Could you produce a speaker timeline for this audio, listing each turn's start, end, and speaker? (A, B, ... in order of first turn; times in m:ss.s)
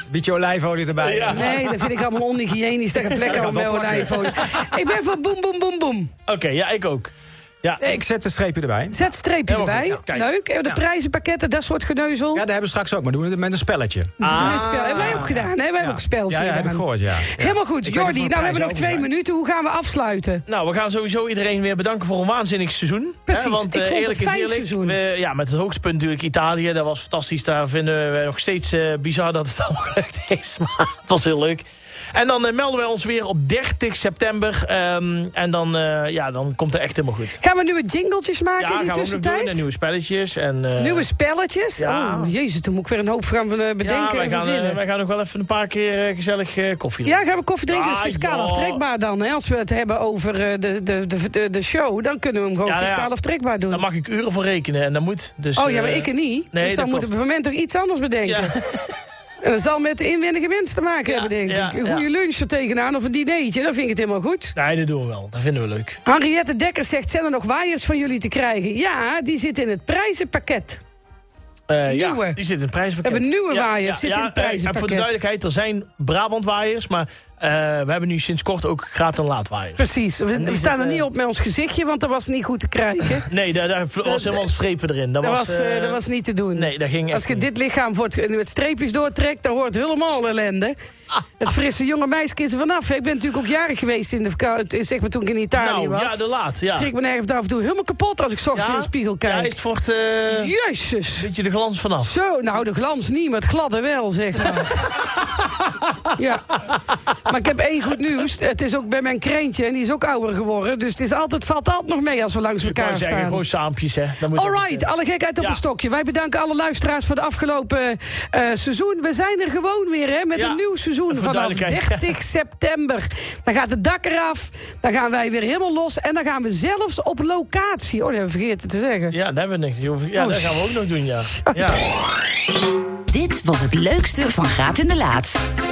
0:00.1-0:01.6 A
0:01.0-0:01.9 B
0:01.3-0:06.1 C
0:03.1-0:04.7 A
0:06.3-0:07.1 B
0:07.8-0:09.0 A
0:08.9-0:12.4 C
0:09.5-0:10.3 B
0:12.3-0:19.1 A
0:14.2-0:20.4 C
0:14.2-0:15.4 B
0:20.5-0:37.4 B
0:23.3-0:25.0 C
0:37.4-0:39.6 C
0:38.6-0:41.1 B
0:40.8-0:44.8 C
0:41.8-0:42.3 B
0:43.8-0:48.8 B
0:47.0-0:53.8 C
0:52.6-0:53.1 B
0:53.7-0:57.1 B
0:55.6-0:58.6 C
0:58.3-0:58.9 B
0:59.4-1:04.6 C
1:01.1-1:02.1 B
1:04.6-1:06.0 B
1:06.1-1:10.8 C
1:11.7-1:21.1 B
1:11.9-1:12.4 C
1:13.0-1:15.2 C
1:19.8-1:23.3 C
1:23.2-1:26.0 B
1:24.0-1:24.5 C
1:25.2-1:30.8 C
1:26.5-1:27.5 B
1:31.4-1:39.6 C
1:35.6-1:36.9 B
1:38.5-1:40.5 B
1:40.3-1:41.3 C
1:41.2-1:42.1 B
1:42.0-1:44.8 C
1:44.6-1:45.5 B
1:46.2-1:46.6 C
1:47.3-1:53.4 C
1:52.6-1:55.6 B
1:54.3-2:09.2 C
2:00.4-2:02.1 B
2:09.1-2:11.8 B
2:10.2-2:10.4 C
2:11.3-2:11.7 C
2:13.1-2:15.4 D